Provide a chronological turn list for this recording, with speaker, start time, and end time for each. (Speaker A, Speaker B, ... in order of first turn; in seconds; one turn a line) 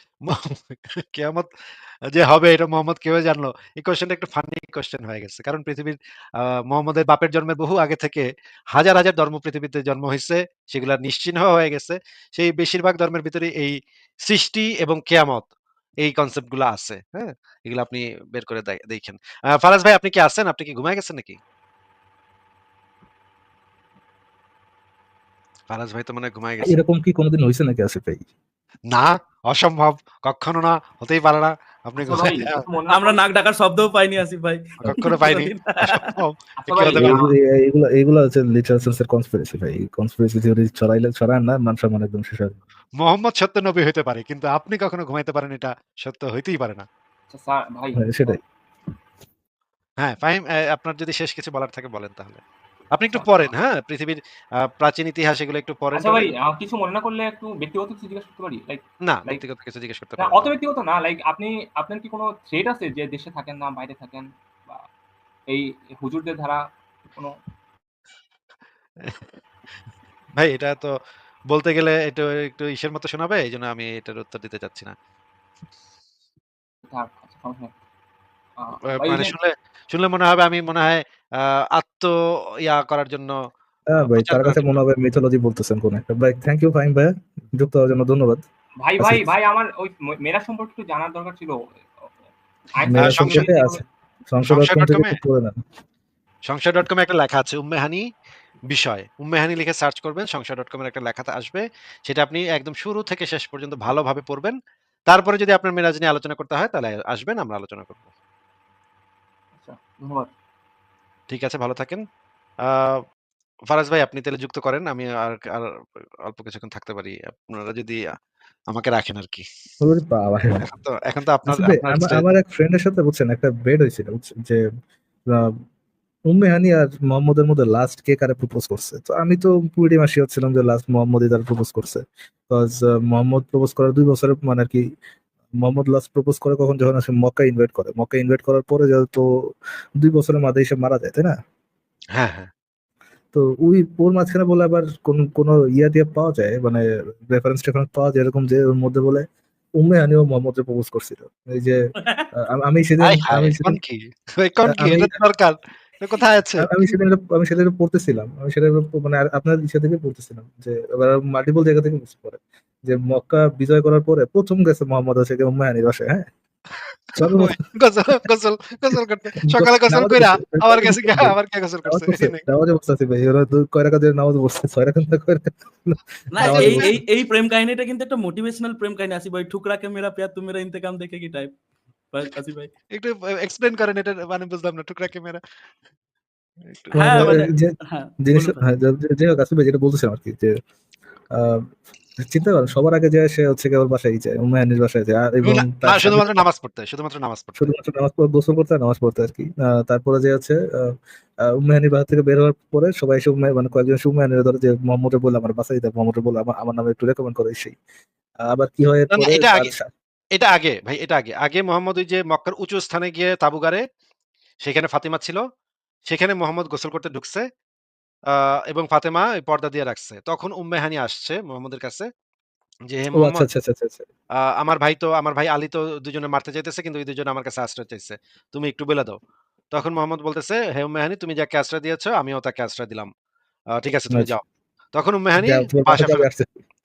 Speaker A: 0.2-1.5
Speaker A: 2.1-15.5
Speaker A: 16.0-21.4
Speaker A: 25.7-26.8
Speaker B: 26.6-28.3
Speaker A: 28.9-32.6
Speaker C: 32.0-33.2
Speaker D: 32.9-36.0
Speaker A: 34.8-37.2
Speaker C: 36.6-37.3
Speaker B: 36.9-42.6
Speaker A: 43.0-46.8
Speaker C: 47.3-48.4
Speaker B: 48.0-48.4
Speaker A: 50.0-52.4
Speaker A: 52.9-56.3
Speaker C: 53.1-53.5
Speaker C: 55.9-59.4
Speaker A: 59.0-60.5
Speaker C: 60.2-64.8
Speaker C: 65.5-67.3
Speaker A: 70.4-71.0
Speaker A: 71.5-74.9
Speaker C: 76.9-77.7
Speaker C: 78.6-79.3
Speaker A: 78.9-83.4
Speaker B: 83.9-88.4
Speaker A: 84.0-84.8
Speaker C: 88.8-91.6
Speaker B: 89.0-89.3
Speaker C: 92.7-93.8
Speaker B: 92.9-95.6
Speaker A: 92.9-93.5
Speaker A: 94.4-95.2
Speaker A: 96.5-98.0
Speaker A: 98.7-104.5
Speaker A: 105.1-108.1
Speaker C: 109.6-110.3
Speaker A: 111.3-112.0
Speaker A: 112.6-113.0
Speaker A: 113.7-115.7
Speaker A: 116.2-118.0
Speaker A: 118.7-119.4
Speaker B: 119.8-120.7
Speaker A: 120.6-122.3
Speaker B: 121.5-124.6
Speaker B: 126.3-134.8
Speaker B: 135.6-141.3
Speaker A: 142.1-142.5
Speaker B: 143.3-149.2
Speaker B: 149.8-151.8
Speaker D: 152.0-152.3
Speaker B: 152.3-153.8
Speaker A: 153.0-156.9
Speaker B: 154.7-155.2
Speaker B: 156.6-166.3
Speaker A: 167.1-172.4
Speaker B: 167.2-167.6
Speaker B: 169.4-171.3
Speaker B: 171.9-177.0
Speaker D: 176.3-181.5
Speaker A: 176.4-176.9
Speaker D: 182.1-182.7
Speaker A: 182.9-185.4
Speaker A: 186.7-187.3
Speaker B: 186.9-190.6
Speaker D: 186.9-188.6
Speaker B: 191.3-191.6
Speaker B: 192.2-196.4
Speaker A: 195.4-197.7
Speaker B: 197.6-200.9
Speaker B: 201.5-207.8
Speaker B: 208.4-209.9
Speaker A: 209.1-209.7
Speaker A: 210.3-213.8
Speaker A: 214.6-215.4
Speaker A: 216.1-217.4
Speaker A: 218.3-222.1
Speaker A: 222.9-223.5
Speaker B: 223.2-224.1
Speaker A: 224.5-229.2
Speaker A: 229.7-233.1
Speaker A: 233.8-234.4
Speaker A: 234.9-236.3
Speaker B: 235.4-236.5